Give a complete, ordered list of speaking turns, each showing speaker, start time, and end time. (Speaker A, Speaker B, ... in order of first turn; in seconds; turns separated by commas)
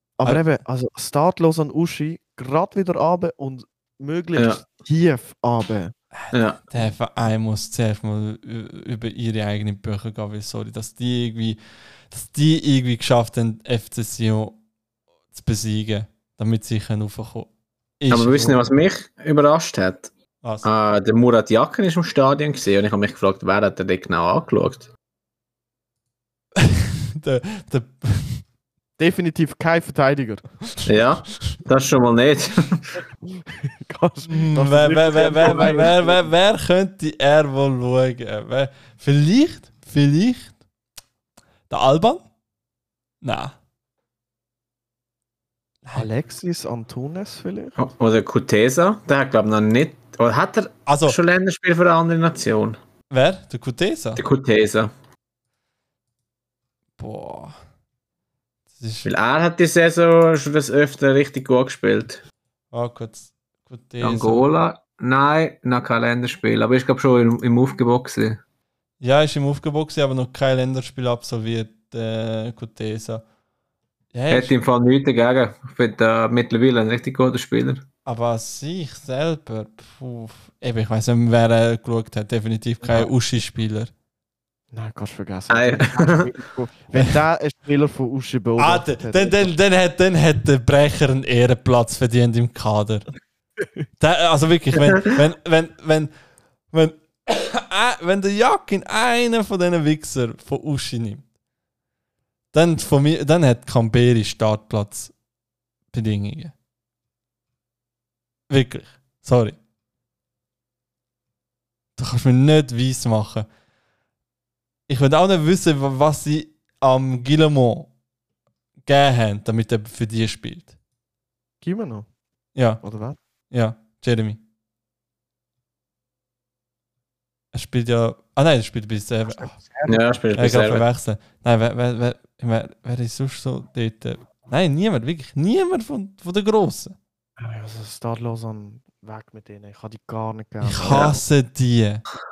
Speaker A: 0.2-5.9, Speaker B: 4.4-4.6, Speaker C: 6.2-11.6, Speaker B: 6.3-6.6, Speaker C: 12.1-14.6, Speaker C: 15.3-18.6, Speaker B: 18.1-20.1, Speaker B: 20.6-24.9, Speaker C: 26.6-28.4, Speaker A: 29.0-30.4, Speaker B: 30.9-33.0, Speaker A: 33.3-36.2, Speaker C: 34.3-40.5, Speaker C: 41.7-42.2, Speaker C: 43.2-43.5, Speaker A: 46.0-47.9, Speaker B: 47.8-52.8, Speaker C: 50.9-51.2, Speaker C: 53.1-54.2, Speaker B: 54.2-54.9, Speaker C: 57.0-57.5, Speaker C: 58.7-59.1, Speaker B: 59.0-62.2, Speaker C: 62.7-64.5, Speaker B: 64.0-68.4, Speaker C: 69.0-73.2, Speaker C: 74.1-74.5, Speaker B: 74.3-77.8, Speaker C: 78.0-83.9, Speaker A: 82.8-83.1, Speaker A: 84.7-89.5, Speaker B: 85.5-86.3, Speaker C: 88.6-93.1, Speaker C: 94.0-96.1, Speaker C: 96.7-101.2, Speaker C: 102.5-105.1, Speaker C: 105.9-106.5, Speaker C: 108.5-109.6, Speaker C: 112.0-113.5, Speaker C: 114.9-117.9, Speaker C: 118.8-120.7, Speaker A: 121.6-122.0, Speaker C: 122.5-122.8, Speaker A: 122.8-123.2, Speaker C: 123.5-124.4, Speaker C: 127.5-129.5, Speaker A: 129.3-130.2, Speaker B: 129.9-130.8, Speaker C: 130.3-137.0, Speaker A: 137.4-141.2, Speaker C: 140.6-142.0, Speaker B: 140.9-141.2